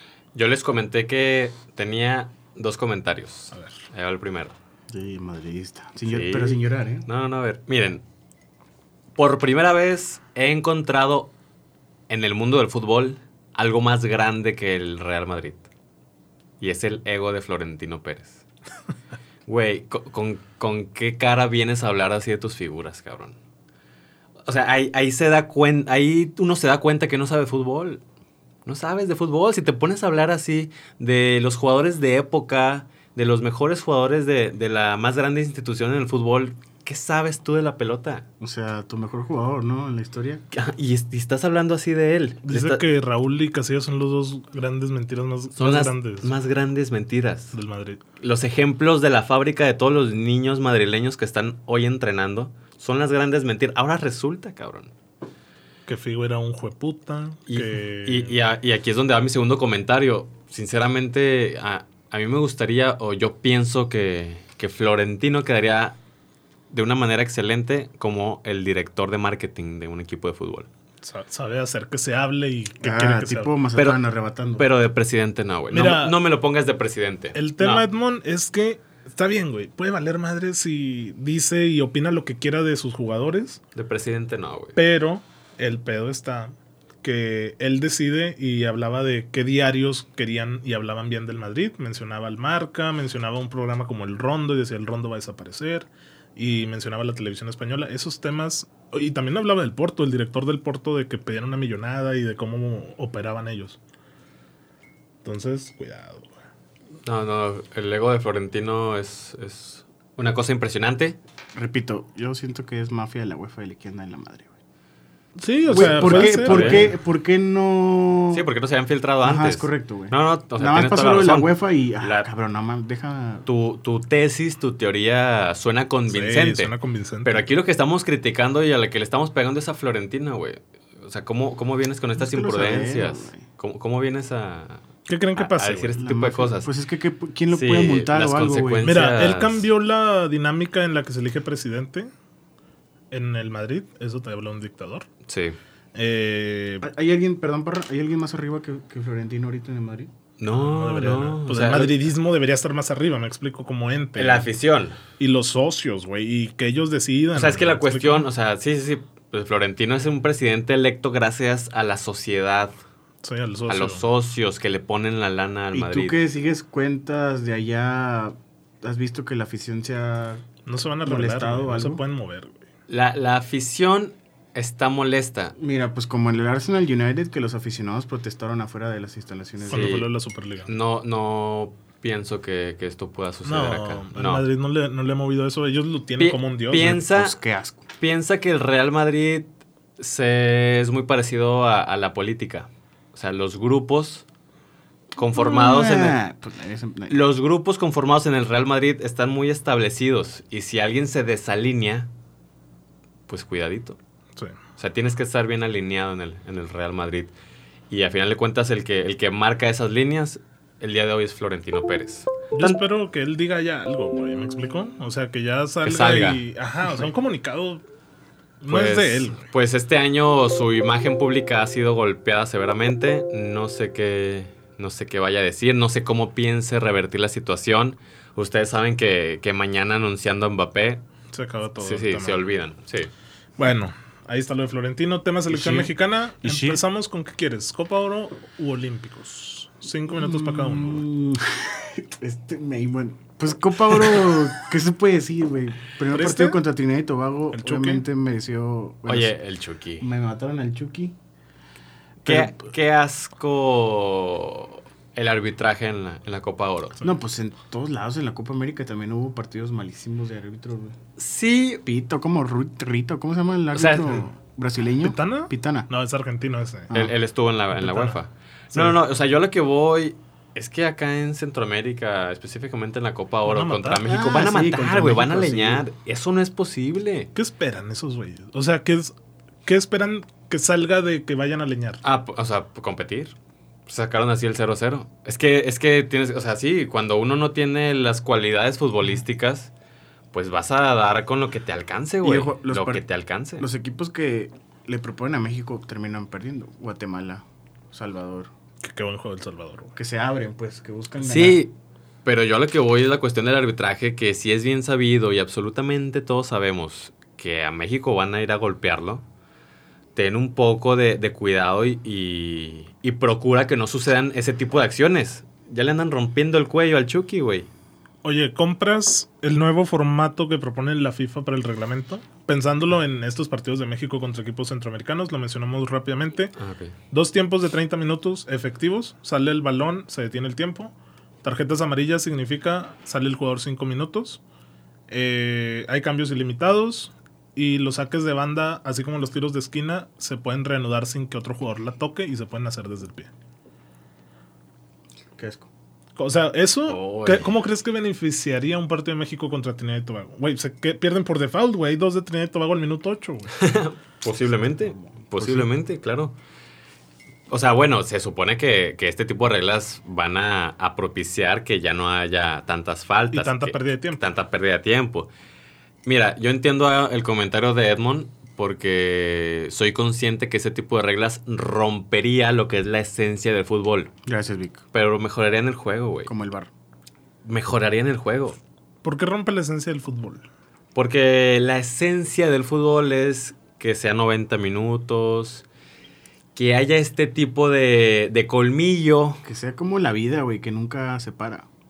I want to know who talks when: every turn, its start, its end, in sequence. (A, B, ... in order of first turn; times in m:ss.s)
0:00.4-0:04.6 A
0:04.9-0:07.1 B
0:06.1-0:08.0 A
0:09.2-0:11.3 A
0:12.1-0:15.7 A
0:16.6-0:18.4 A
0:19.5-0:23.4 A
0:24.5-0:28.0 A
0:28.7-0:38.3 A
0:38.4-0:40.4 B
0:40.5-0:42.8 A
0:42.4-0:46.3 C
0:45.6-0:47.5 A
0:47.5-0:48.0 C
0:48.2-0:54.9 A
0:55.9-0:58.4 C
0:57.5-1:06.0 A
1:06.7-1:10.7 A
1:11.0-1:13.5 C
1:12.8-1:14.6 B
1:13.8-1:14.0 A
1:14.6-1:17.9 A
1:15.7-1:16.2 C
1:17.3-1:23.6 C
1:23.8-1:24.8 A
1:24.8-1:43.8 C
1:45.2-1:46.3 C
1:47.0-1:51.2 A
1:51.6-1:54.5 B
1:55.4-1:57.0 C
1:55.7-1:56.9 A
1:55.7-1:58.5 B
1:58.3-2:02.3 A
1:59.2-2:03.4 B
2:03.4-2:14.8 A
2:06.1-2:07.4 C
2:12.2-2:13.4 B
2:15.1-2:16.0 C
2:15.4-2:16.7 A
2:16.0-2:19.0 B
2:17.5-2:19.7 A
2:18.8-2:22.1 C
2:23.1-2:25.1 C
2:25.3-2:25.6 A
2:26.0-2:26.9 C
2:26.8-2:30.1 B
2:30.4-2:32.1 A
2:30.5-2:34.5 C
2:34.2-2:35.0 A
2:35.2-2:38.3 C
2:37.4-2:42.8 A
2:43.2-2:44.0 C
2:43.7-2:46.2 A
2:45.7-2:50.4 B
2:50.7-2:52.6 C
2:51.0-2:52.0 B
2:52.9-2:55.5 A
2:55.6-3:00.0 B
2:59.7-3:00.1 A
2:59.7-3:00.7 C
3:00.7-3:04.4 A
3:03.4-3:07.0 C
3:06.2-3:07.4 A
3:07.0-3:07.8 B
3:08.0-3:14.2 A
3:15.2-3:16.2 A
3:15.3-3:17.2 B
3:17.1-3:22.1 A
3:23.3-3:24.0 A
3:24.8-3:27.3 A
3:27.9-3:32.8 A
3:32.5-3:37.8 C
3:35.8-3:36.4 A
3:38.6-3:39.5 C
3:38.7-3:51.0 A
3:51.3-3:52.5 C
3:51.8-3:53.1 A
3:53.6-4:01.0 C
3:55.5-3:56.8 B
4:00.1-4:09.4 B
4:06.1-4:06.6 C
4:07.5-4:08.0 C
4:09.1-4:10.1 A
4:10.0-4:11.2 B
4:12.2-4:17.0 A
4:12.2-4:12.6 B
4:17.0-4:21.0 B
4:21.2-4:21.8 A
4:21.8-4:25.9 B
4:23.7-4:24.2 A
4:25.0-4:27.0 C
4:26.9-4:37.3 A
4:27.8-4:28.2 C
4:33.5-4:34.0 C
4:34.0-4:35.9 B
4:37.4-4:39.1 C
4:39.7-4:42.0 C
4:42.0-4:43.4 A
4:43.9-4:49.7 A
4:50.3-4:53.7 A
4:52.2-4:53.0 B
4:53.6-4:58.5 B
4:58.8-4:59.9 C
5:00.0-5:01.6 B
5:01.2-5:01.7 A
5:02.2-5:09.2 A
5:10.2-5:17.7 A
5:18.2-5:26.5 C
5:26.6-5:27.0 A
5:27.1-5:30.9 C
5:31.4-5:34.4 C
5:35.1-5:43.3 C
5:45.3-5:45.7 B
5:46.2-5:53.6 C
5:46.9-5:47.5 A
5:53.6-5:56.4 A
5:54.9-5:55.7 B
5:57.5-6:05.3 A
6:03.3-6:04.2 C
6:06.0-6:14.1 A
6:14.3-6:14.8 B
6:14.9-6:16.3 A
6:16.2-6:16.7 B
6:17.4-6:18.6 A
6:19.0-6:20.5 C
6:21.0-6:25.6 A
6:26.6-6:29.4 A
6:29.4-6:31.7 B